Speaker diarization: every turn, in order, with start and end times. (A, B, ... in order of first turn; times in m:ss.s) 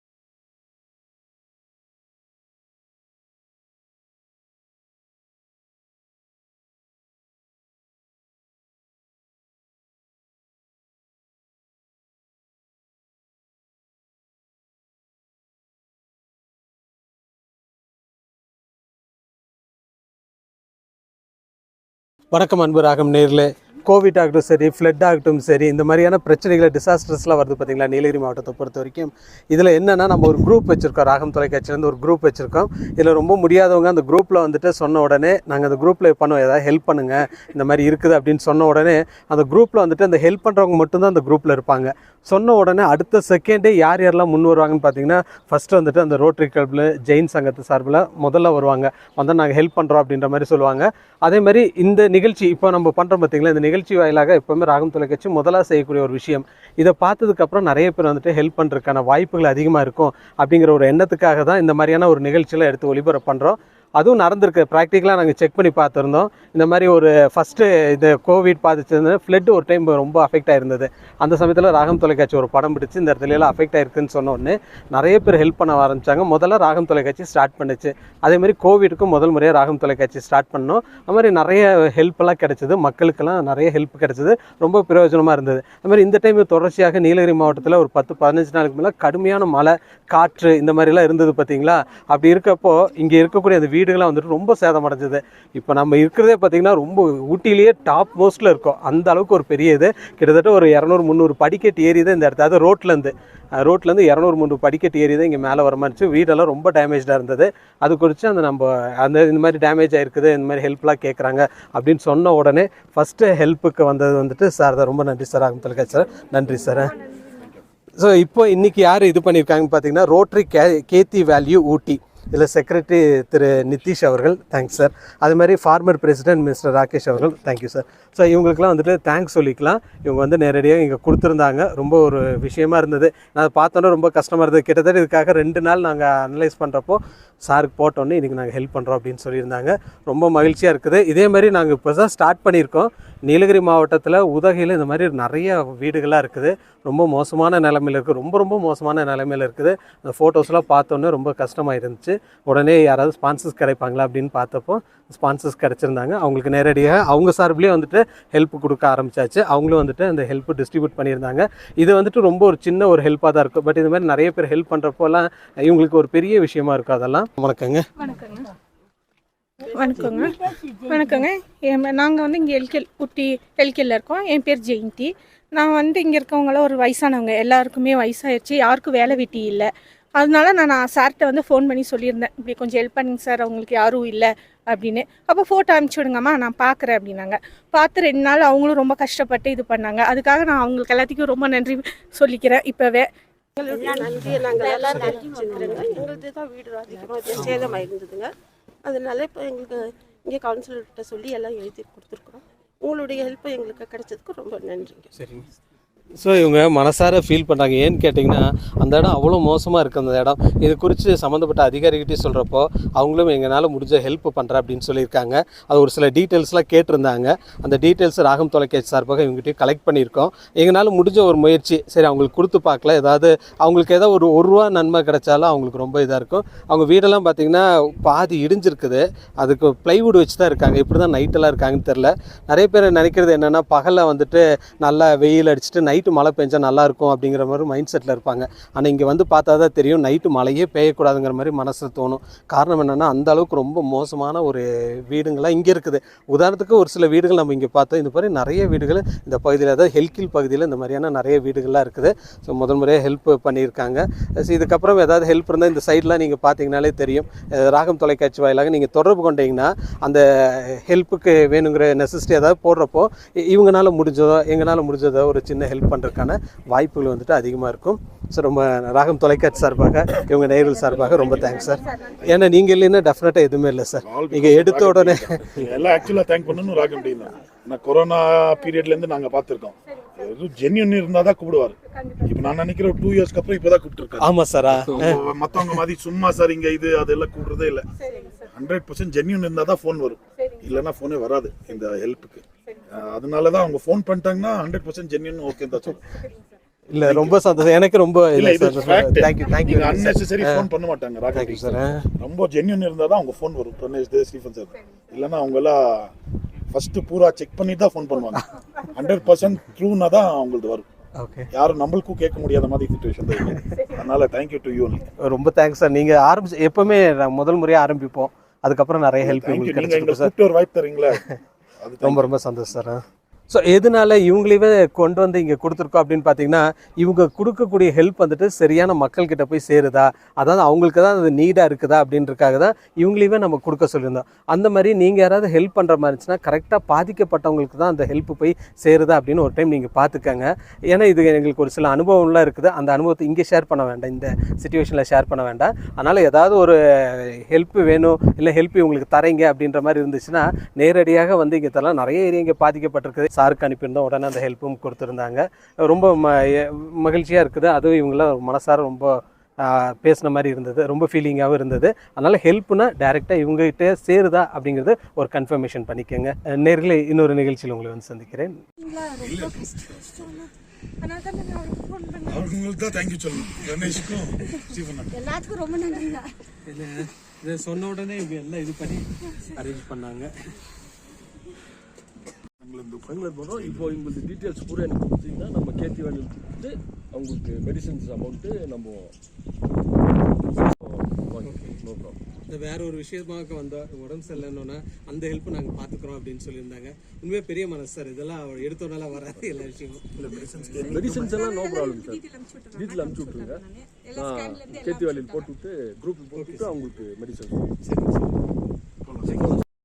0:22.3-1:57.0 A
1:58.0-2:47.9 A
2:48.0-2:48.5 B
2:49.6-3:13.1 B
3:13.6-3:25.1 C
3:17.4-3:17.9 A
3:25.2-3:25.4 A
3:26.2-4:35.7 A
4:31.1-4:31.3 D
4:34.0-4:47.9 D
4:44.2-4:45.8 A
4:48.1-4:48.4 B
4:48.5-4:56.2 D
4:56.9-5:00.7 A
4:57.0-4:57.4 D
4:58.3-5:06.1 D
5:01.3-5:02.1 A
5:06.7-5:10.9 D
5:11.2-5:11.5 A
5:11.5-5:15.0 D
5:15.2-5:20.3 A
5:19.2-5:21.2 D
5:21.8-5:22.4 D
5:22.0-6:08.6 A
6:08.9-6:09.4 B
6:09.2-6:10.3 D
6:11.0-6:12.3 B
6:12.3-6:15.2 D
6:16.6-6:20.3 A
6:22.6-6:24.0 D
6:23.0-6:29.1 E
6:30.6-6:32.2 E
6:31.4-6:31.8 A
6:32.5-6:40.0 A
6:40.2-6:41.6 D
6:40.9-6:47.7 E
6:46.4-6:46.7 A
6:47.9-6:48.2 A
6:49.1-6:49.6 D
6:49.3-6:49.6 E